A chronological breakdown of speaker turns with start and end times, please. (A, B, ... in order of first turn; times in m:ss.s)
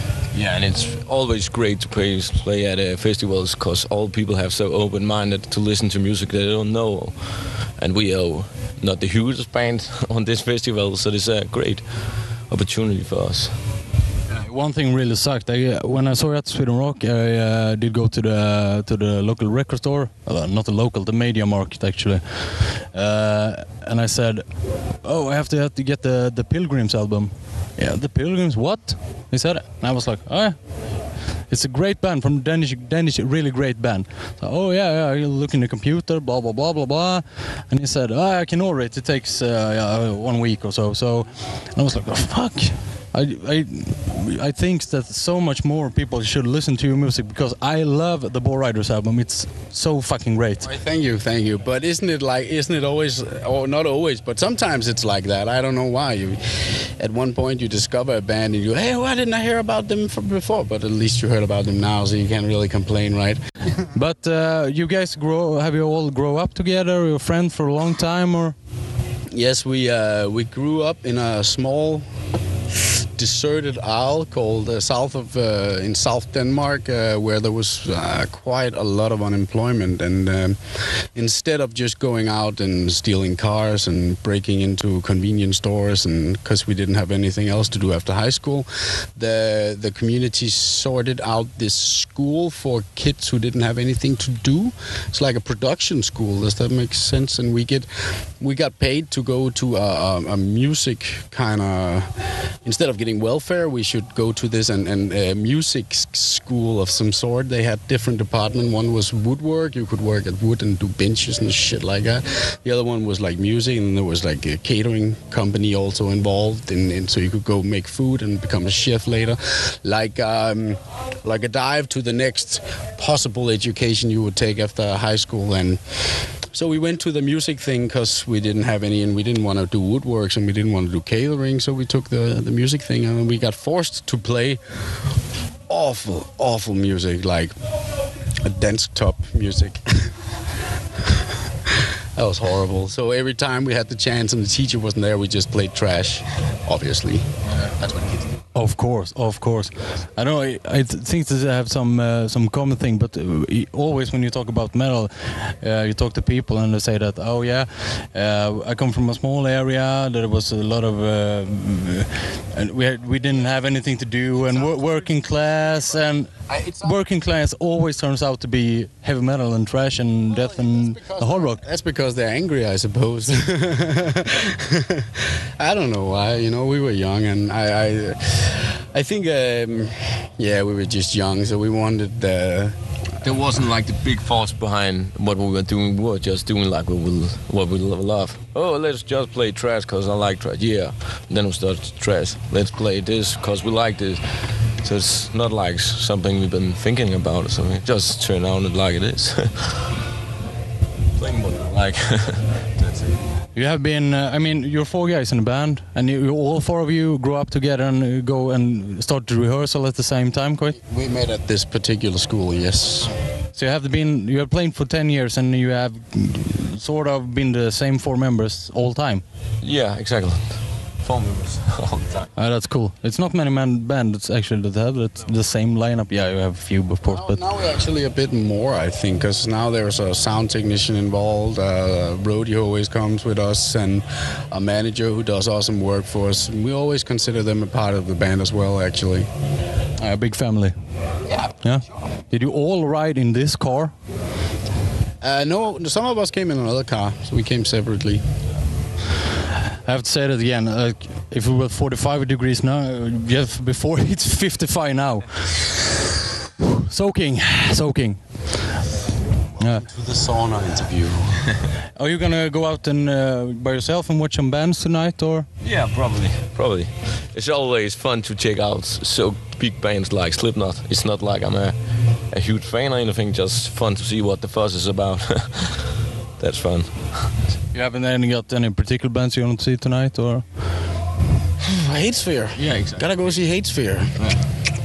0:00.3-0:07.2 A
0:07.8-0:11.8 A
0:12.5-0:13.5 A
0:14.3-0:24.5 B
0:25.0-0:30.6 B
0:31.4-0:50.7 B
0:50.6-1:03.4 C
1:03.9-1:08.5 B
1:09.3-1:12.0 C
1:13.2-1:37.9 C
1:38.4-1:42.1 C
1:42.6-2:05.8 C
2:06.5-2:14.6 C
2:15.7-2:17.5 C
2:18.4-2:20.1 C
2:22.2-2:28.3 C
2:28.5-2:46.3 B
2:44.4-2:45.1 C
2:46.5-2:47.0 C
2:46.8-2:51.6 B
2:50.3-3:02.8 C
3:03.2-3:14.2 A
3:14.8-3:19.9 A
3:21.2-3:23.2 A
3:23.5-3:30.8 B
3:30.8-3:33.1 C
3:33.5-3:39.2 B
3:39.6-3:42.3 A
3:42.4-3:47.4 B
3:47.0-3:59.3 C
4:00.0-4:00.7 B
4:01.6-4:03.9 B
4:05.2-4:08.2 C
4:09.8-4:16.0 B
4:16.6-4:18.8 B
4:19.6-4:19.8 B
4:19.6-4:21.4 C
4:22.0-4:25.5 B
4:25.6-4:31.8 A
4:32.3-4:37.3 A
4:37.7-4:40.4 B
4:41.6-4:44.1 C
4:42.6-4:43.1 A